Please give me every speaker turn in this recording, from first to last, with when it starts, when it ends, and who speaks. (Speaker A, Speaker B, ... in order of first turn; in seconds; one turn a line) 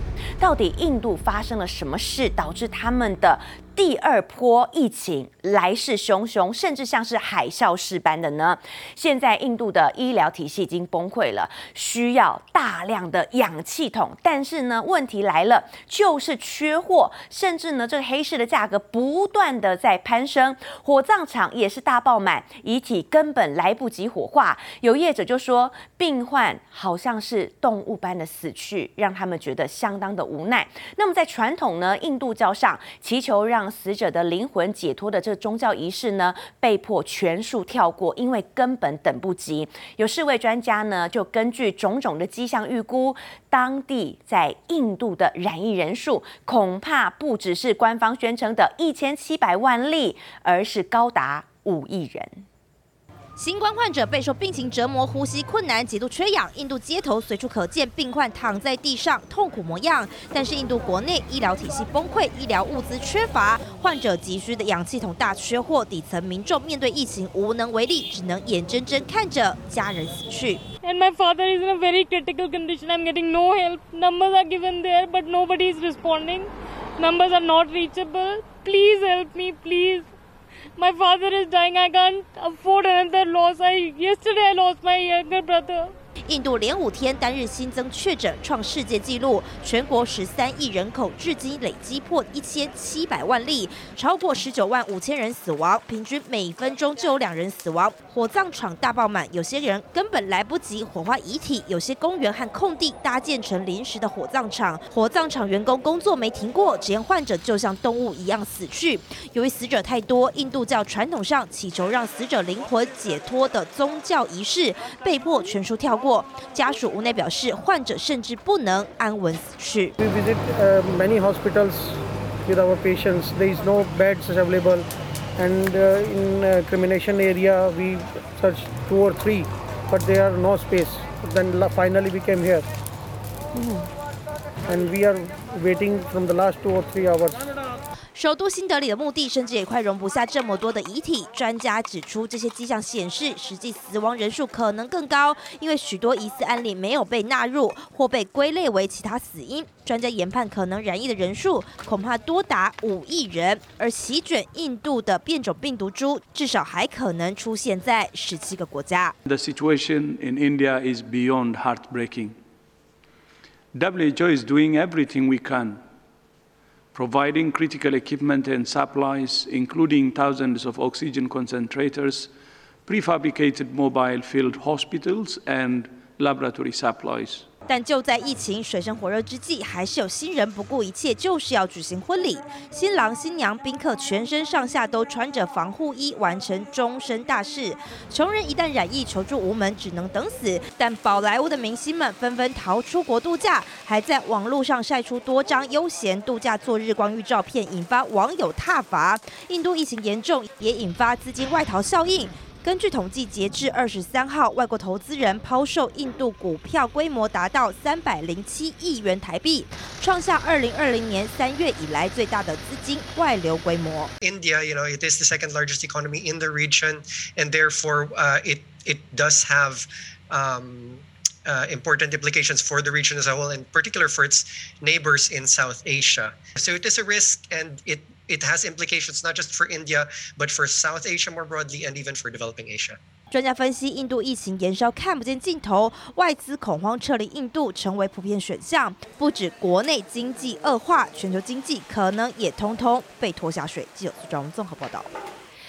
Speaker A: 0.4-52.5
Speaker B: 53.4-70.6
Speaker C: 70.8-80.1
Speaker C: 80.8-85.9
Speaker B: 86.3-119.9
Speaker D: 120.0-124.8
Speaker D: 125.4-132.7
Speaker A: 133.6-133.8
Speaker D: 134.7-137.4
Speaker B: 138.2-159.2
Speaker E: 159.2-162.3
Speaker E: 163.7-165.8
Speaker E: 166.9-172.3
Speaker E: 172.8-177.5
Speaker B: 177.7-214.1
Speaker F: 214.2-233.0
Speaker B: 233.3-245.1